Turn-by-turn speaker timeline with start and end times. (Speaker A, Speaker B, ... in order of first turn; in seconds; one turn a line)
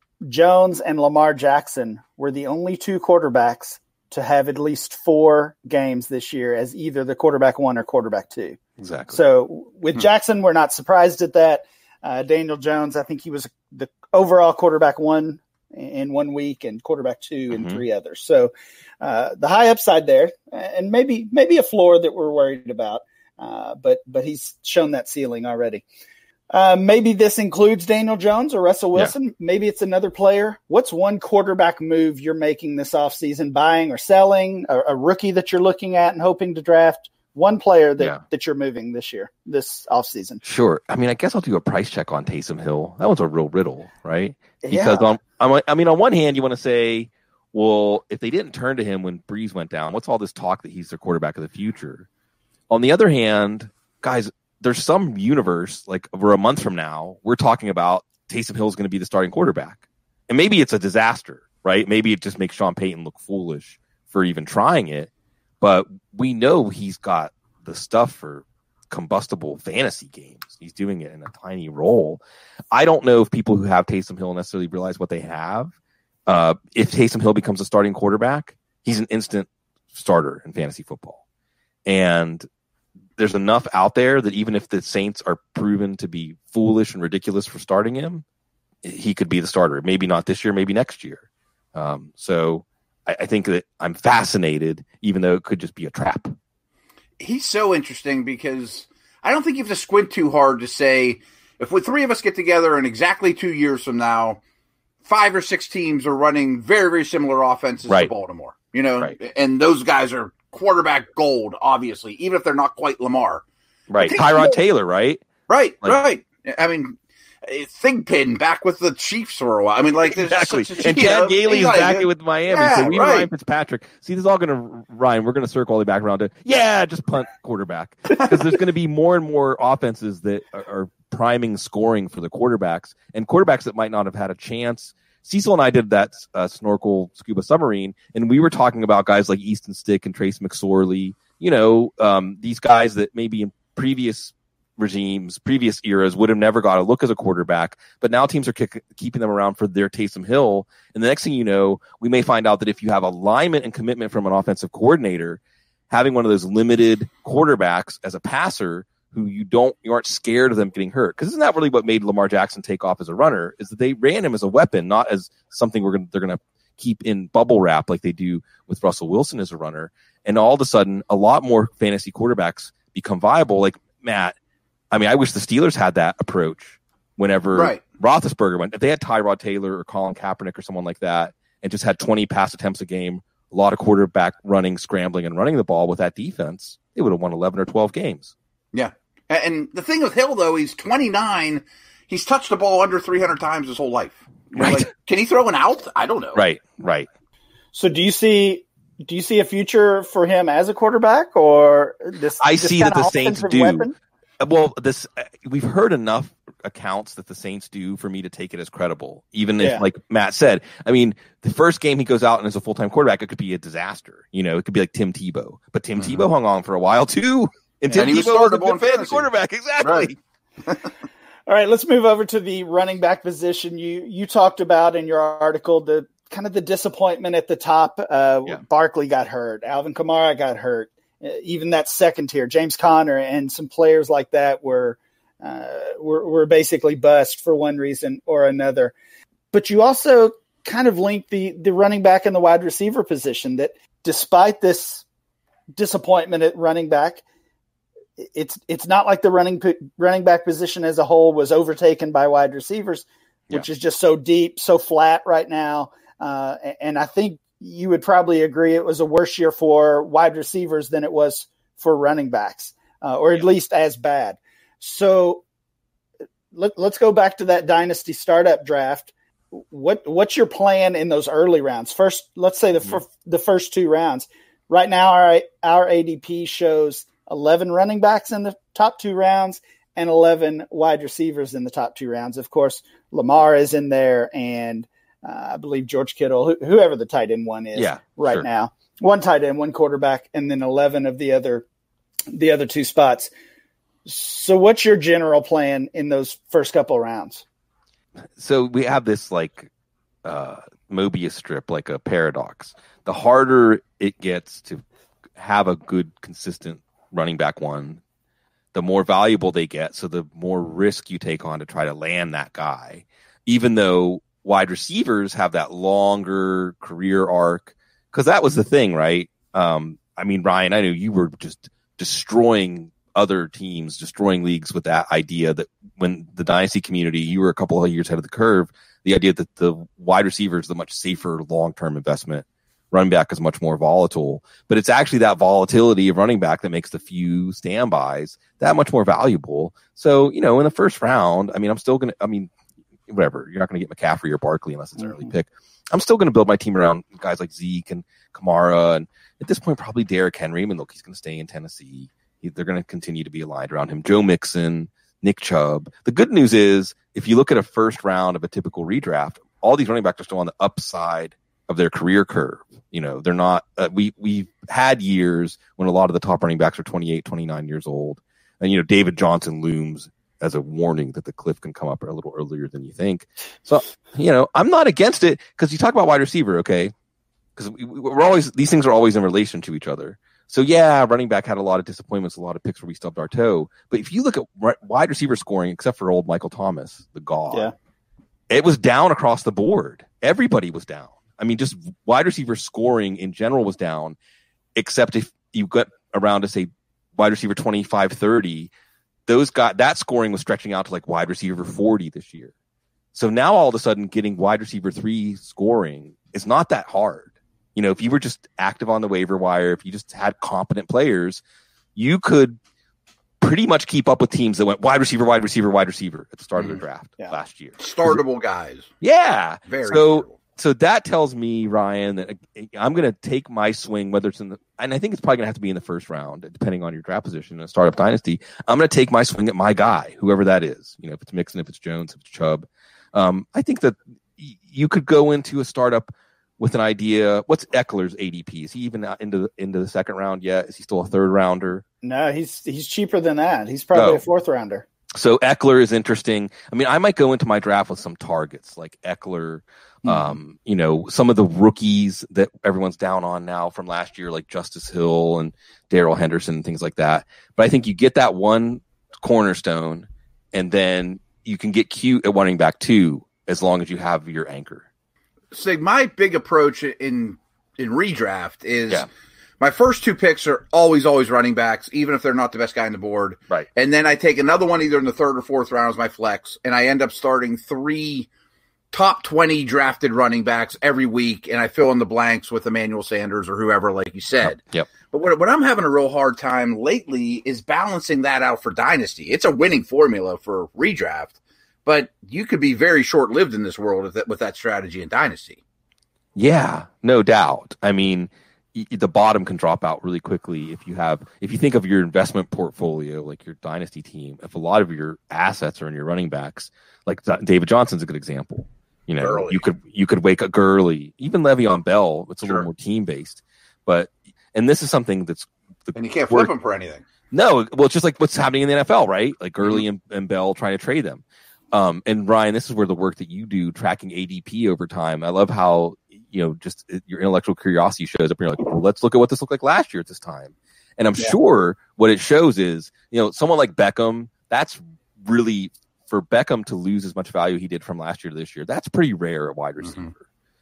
Speaker A: 0.2-8.6
Speaker B: 8.8-9.2
Speaker A: 9.1-25.8
Speaker B: 17.5-17.8
Speaker A: 26.5-40.4
Speaker B: 40.4-52.1
Speaker A: 44.6-45.2
Speaker B: 52.7-72.2
Speaker B: 72.7-75.7
Speaker B: 76.3-81.2
Speaker B: 81.9-82.5
Speaker B: 83.2-88.2
Speaker B: 88.8-96.3
Speaker C: 97.2-104.4
Speaker C: 105.0-113.4
Speaker B: 113.9-115.3
Speaker C: 114.0-114.6
Speaker C: 115.5-123.3
Speaker B: 120.1-174.4
Speaker B: 174.9-188.3
Speaker C: 177.5-177.8
Speaker C: 188.7-196.4
Speaker B: 194.6-194.9
Speaker B: 196.3-197.1
Speaker A: 197.7-203.9
Speaker B: 202.4-203.9
Speaker B: 204.4-220.2
Speaker A: 209.6-209.8
Speaker C: 216.0-216.2
Speaker C: 217.9-219.3
Speaker C: 219.8-220.1
Speaker A: 221.5-238.9
Speaker A: 239.5-245.1
Speaker A: 245.7-247.2
Speaker A: 248.2-265.4
Speaker A: 266.5-291.6
Speaker B: 287.8-288.5
Speaker A: 292.3-293.3
Speaker A: 294.1-297.4
Speaker B: 298.4-299.7
Speaker B: 300.2-304.8
Speaker B: 305.4-308.0
Speaker B: 308.7-342.5
Speaker B: 343.1-376.9
Speaker B: 377.6-387.7
Speaker B: 388.5-394.2
Speaker B: 394.8-398.7
Speaker B: 399.3-402.5
Speaker B: 403.1-411.4
Speaker B: 411.9-412.6
Speaker B: 413.4-418.2
Speaker C: 417.8-418.9
Speaker B: 419.0-441.8
Speaker C: 419.7-420.4
Speaker A: 442.0-444.9
Speaker B: 443.9-444.2
Speaker B: 445.1-464.9
Speaker A: 450.0-450.4
Speaker C: 465.5-469.1
Speaker C: 469.6-478.3
Speaker C: 478.9-495.6
Speaker B: 484.4-484.9
Speaker B: 496.4-516.5
Speaker C: 509.2-509.6
Speaker C: 515.9-517.0
Speaker B: 517.3-540.2
Speaker C: 539.8-540.1